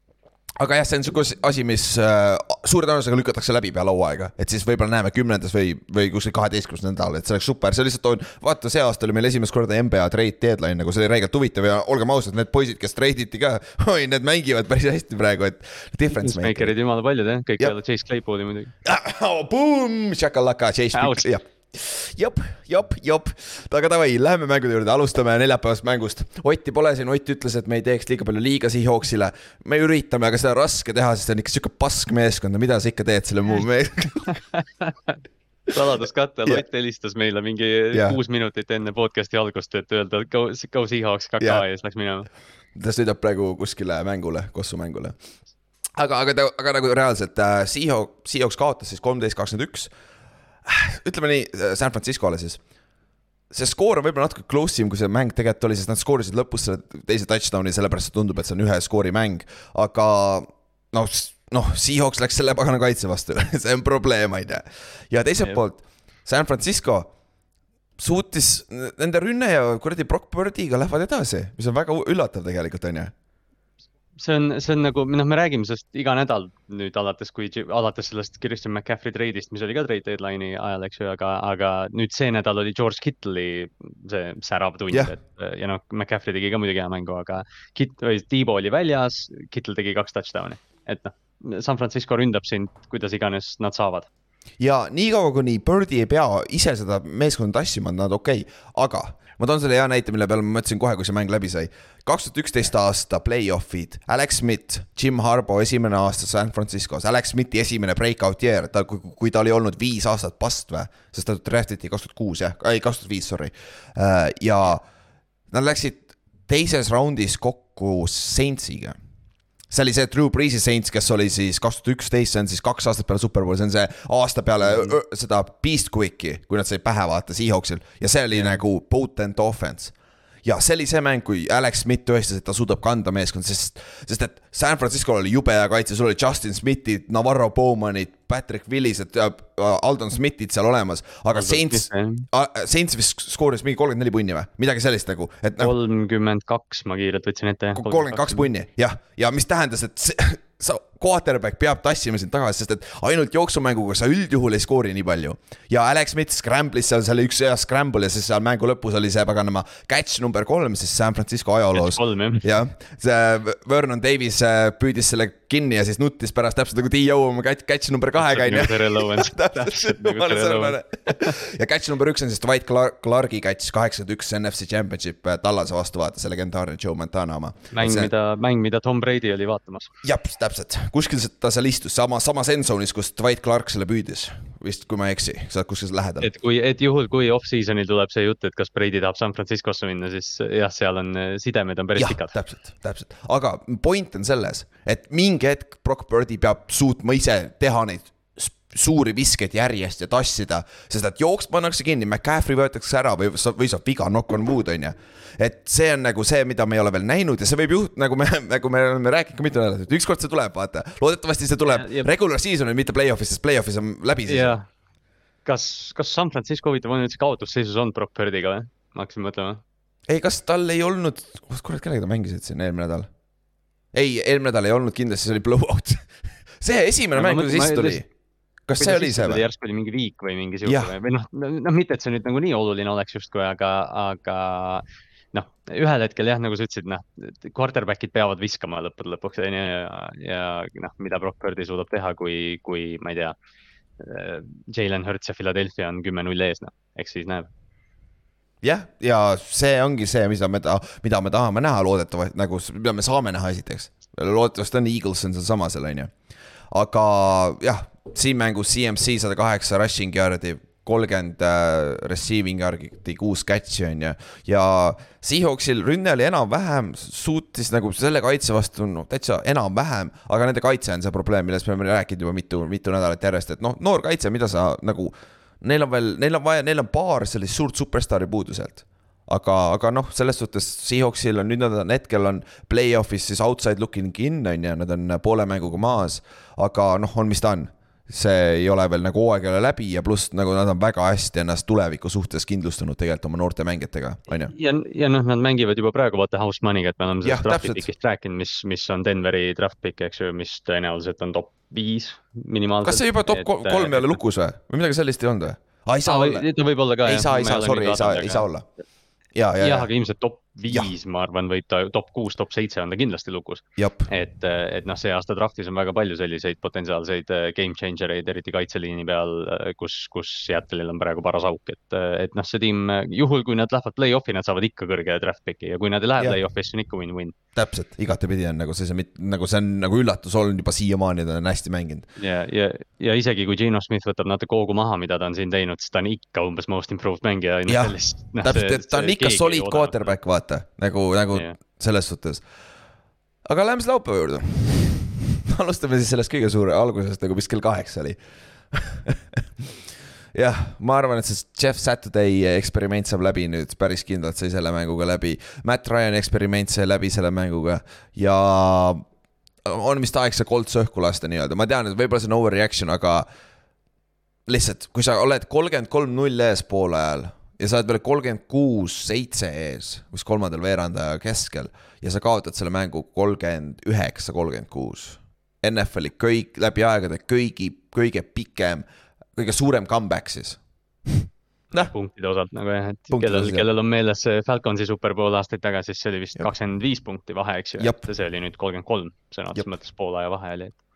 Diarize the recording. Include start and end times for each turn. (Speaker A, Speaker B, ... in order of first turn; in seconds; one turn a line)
Speaker A: 0.6-16.7
Speaker B: 16.1-18.7
Speaker A: 18.8-34.3
Speaker B: 20.9-21.3
Speaker B: 34.3-35.2
Speaker B: 35.7-42.3
Speaker A: 37.9-38.2
Speaker A: 42.7-45.1
Speaker A: 46.0-49.9
Speaker A: 50.6-52.6
Speaker A: 53.5-67.1
Speaker A: 68.0-73.1
Speaker B: 74.2-94.1
Speaker A: 94.6-114.8
Speaker A: 115.5-118.9
Speaker A: 119.7-145.7
Speaker B: 128.3-128.6
Speaker B: 141.3-142.2
Speaker B: 145.6-148.5
Speaker A: 147.7-178.1
Speaker B: 161.7-162.5
Speaker B: 168.2-171.3
Speaker B: 177.7-179.9
Speaker A: 180.0-186.3
Speaker B: 186.2-192.3
Speaker A: 192.0-214.6
Speaker B: 211.6-212.1
Speaker B: 214.3-214.7
Speaker B: 215.4-219.6
Speaker A: 220.1-223.1
Speaker A: 223.9-226.1
Speaker A: 226.6-228.0
Speaker B: 227.1-228.0
Speaker A: 228.7-229.4
Speaker B: 228.8-243.3
Speaker A: 230.6-230.9
Speaker B: 244.0-247.5
Speaker A: 248.6-256.1
Speaker A: 256.7-294.5
Speaker B: 294.5-304.1
Speaker A: 297.2-297.8
Speaker A: 302.8-306.4
Speaker B: 306.1-308.5
Speaker A: 307.0-308.6
Speaker A: 309.3-309.9
Speaker B: 309.6-327.3
Speaker A: 313.8-314.1
Speaker A: 327.6-332.1
Speaker B: 332.2-340.1
Speaker A: 337.7-342.4
Speaker A: 343.4-348.2
Speaker A: 348.7-349.8
Speaker A: 350.3-359.0
Speaker A: 359.6-363.3
Speaker A: 364.4-381.9
Speaker B: 381.7-390.7
Speaker A: 383.1-383.6
Speaker A: 387.8-388.0